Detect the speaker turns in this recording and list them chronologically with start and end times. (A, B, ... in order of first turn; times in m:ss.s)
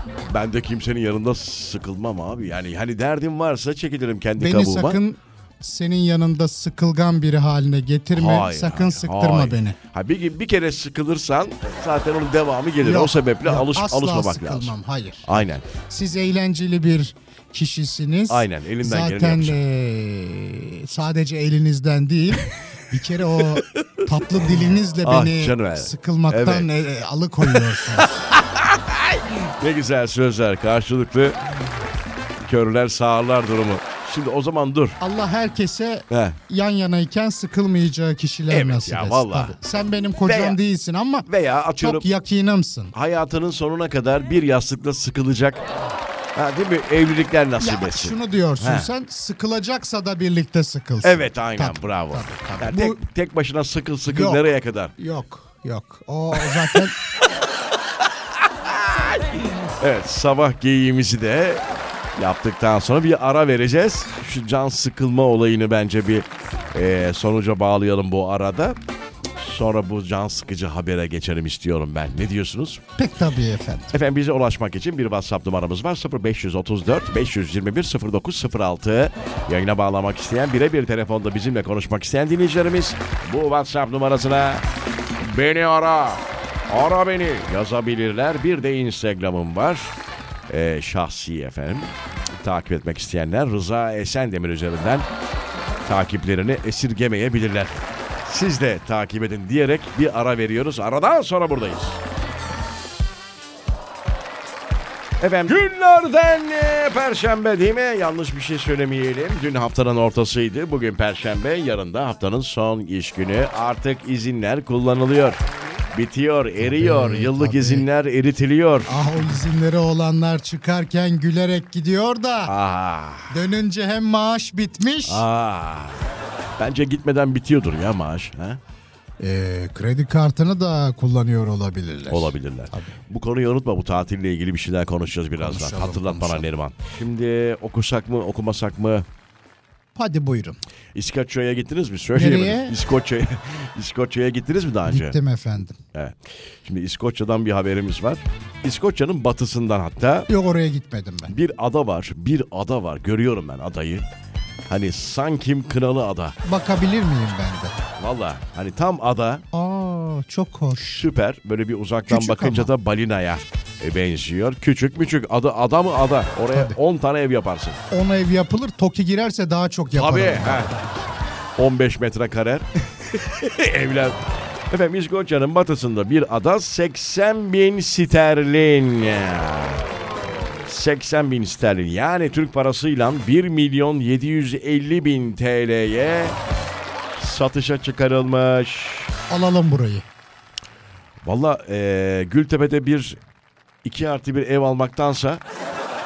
0:00.3-0:05.0 A
0:04.4-0:09.8 B
0:08.1-0:14.7 A
0:12.8-0:28.2 B
0:15.2-0:15.7 A
0:18.3-0:19.6 A
0:23.7-0:24.0 A
0:25.0-0:26.7 A
0:27.5-0:31.4 A
0:32.4-0:35.0 A
0:35.0-0:42.9 B
0:36.1-0:36.4 A
0:38.5-0:39.6 A
0:40.2-0:40.6 A
0:41.3-0:42.0 A
0:42.9-0:45.6 A
0:46.3-0:48.9 A
0:47.6-0:53.0 B
0:51.0-0:54.9 A
0:54.1-0:56.9 B
0:56.5-0:56.8 A
0:58.4-1:01.6 A
1:02.2-1:08.8 A
1:09.4-1:12.8 A
1:13.0-1:13.9 B
1:13.9-1:24.6 A
1:25.2-1:30.0 A
1:30.5-1:35.1 A
1:35.8-1:42.0 A
1:45.2-1:55.4 A
1:55.9-1:59.0 A
1:56.6-1:57.9 B
1:58.9-2:02.5 B
2:02.4-2:03.4 A
2:03.3-2:05.2 B
2:05.0-2:08.6 A
2:09.2-2:12.9 B
2:12.1-2:19.0 A
2:15.4-2:16.4 B
2:19.9-2:20.6 B
2:20.9-2:25.2 A
2:22.1-2:22.8 B
2:24.8-2:25.8 B
2:25.9-2:30.3 A
2:30.3-2:31.3 B
2:31.3-2:34.1 A
2:34.7-2:36.4 A
2:36.4-2:37.8 B
2:38.0-2:39.4 A
2:39.5-2:41.1 B
2:40.9-2:47.8 A
2:42.1-2:42.7 B
2:46.5-2:46.8 B
2:47.9-2:50.8 B
2:49.9-2:50.8 A
2:51.6-2:54.2 A
2:54.7-2:59.8 A
3:00.6-3:06.4 A
3:07.2-3:09.1 A
3:09.3-3:10.0 B
3:11.2-3:13.2 A
3:13.8-3:15.4 A